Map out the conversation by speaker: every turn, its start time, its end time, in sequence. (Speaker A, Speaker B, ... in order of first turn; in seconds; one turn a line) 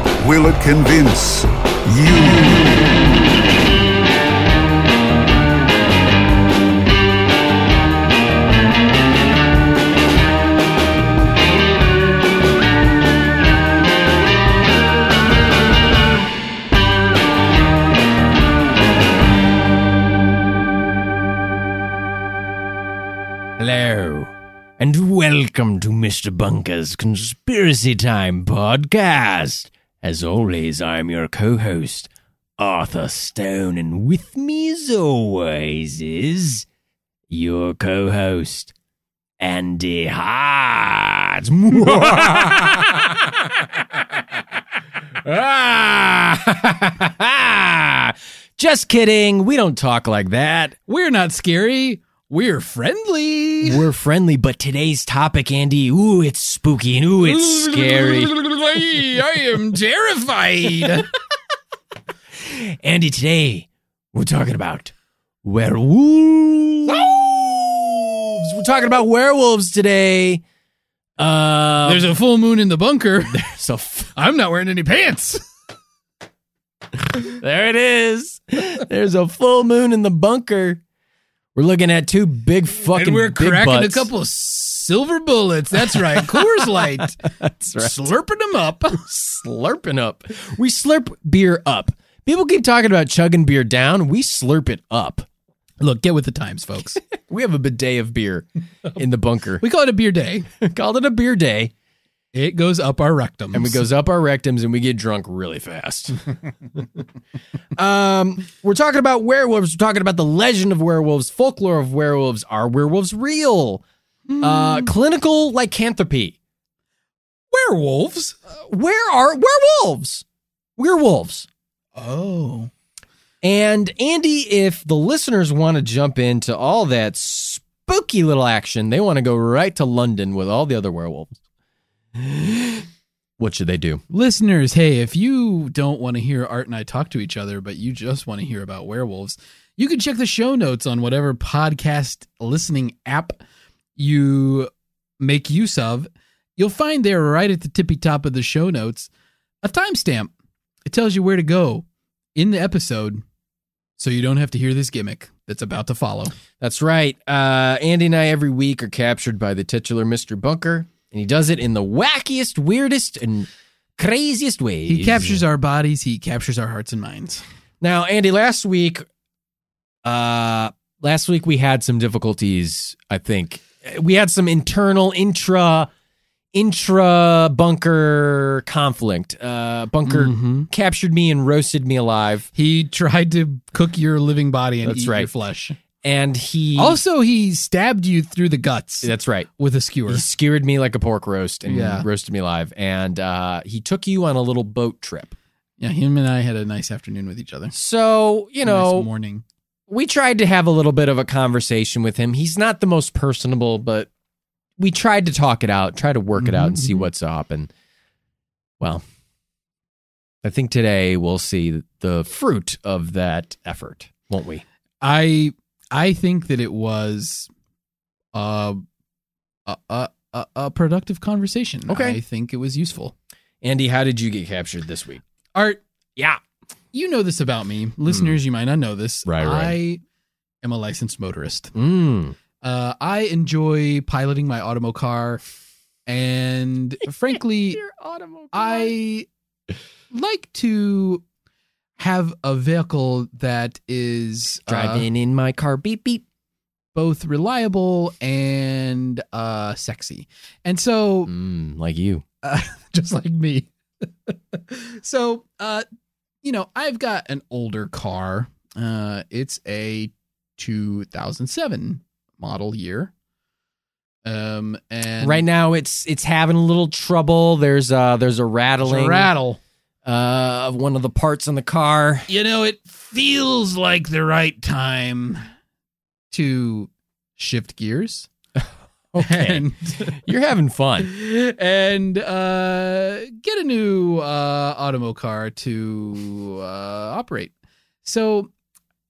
Speaker A: 0.2-2.8
Speaker B: 23.6-36.6
Speaker B: 37.3-38.7
Speaker B: 39.4-43.7
Speaker C: 41.8-42.5
Speaker B: 45.2-50.8
Speaker C: 50.9-53.8
Speaker B: 53.6-58.3
Speaker C: 57.2-61.1
Speaker B: 62.4-64.9
Speaker B: 65.4-70.4
Speaker B: 71.2-72.1
Speaker C: 71.8-73.5
Speaker B: 73.3-74.1
Speaker C: 74.1-75.4
Speaker B: 77.2-80.8
Speaker B: 81.5-84.1
Speaker C: 82.9-87.2
Speaker B: 85.9-88.0
Speaker C: 87.8-89.0
Speaker B: 89.0-95.2
Speaker C: 95.8-97.0
Speaker B: 97.1-99.6
Speaker C: 99.6-100.5
Speaker B: 100.6-101.7
Speaker C: 102.3-103.8
Speaker B: 103.5-106.3
Speaker B: 107.8-113.8
Speaker C: 114.3-114.9
Speaker B: 114.4-116.3
Speaker C: 117.5-118.4
Speaker B: 118.5-120.2
Speaker B: 120.8-121.5
Speaker C: 122.0-122.7
Speaker B: 123.4-131.3
Speaker B: 132.2-132.8
Speaker B: 133.4-134.0
Speaker C: 134.1-143.4
Speaker C: 144.0-149.1
Speaker C: 149.6-150.3
Speaker C: 150.8-153.2
Speaker C: 154.0-156.3
Speaker B: 156.6-165.4
Speaker C: 164.9-167.4
Speaker B: 167.8-169.0
Speaker B: 170.0-175.9
Speaker B: 176.5-182.5
Speaker C: 180.1-180.7
Speaker C: 182.5-185.8
Speaker B: 184.8-185.3
Speaker B: 186.0-187.0
Speaker C: 186.8-190.2
Speaker B: 189.0-189.5
Speaker B: 190.1-195.3
Speaker C: 191.7-192.1
Speaker C: 195.8-197.7
Speaker B: 197.7-199.1
Speaker C: 198.6-199.4
Speaker B: 199.9-204.1
Speaker B: 204.8-207.7
Speaker C: 206.4-207.0
Speaker B: 210.4-214.6
Speaker C: 215.0-217.5
Speaker C: 218.3-218.8
Speaker C: 219.7-223.1
Speaker B: 221.9-222.2
Speaker B: 223.6-225.2
Speaker C: 225.5-225.8
Speaker C: 226.9-230.0
Speaker B: 229.2-229.7
Speaker C: 230.6-231.7
Speaker B: 231.7-232.3
Speaker C: 232.6-235.4
Speaker C: 236.1-237.8
Speaker B: 237.7-238.9
Speaker C: 238.5-239.3
Speaker C: 240.1-241.2
Speaker C: 242.0-245.1
Speaker B: 244.7-246.2
Speaker C: 246.9-251.3
Speaker B: 251.3-252.2
Speaker C: 252.4-255.8
Speaker C: 256.4-263.1
Speaker C: 264.2-265.4
Speaker B: 265.2-269.3
Speaker C: 268.8-269.6
Speaker B: 270.1-272.3
Speaker C: 272.3-275.4
Speaker C: 276.3-278.3
Speaker B: 278.6-281.1
Speaker C: 279.2-280.1
Speaker C: 281.0-287.5
Speaker C: 288.0-288.5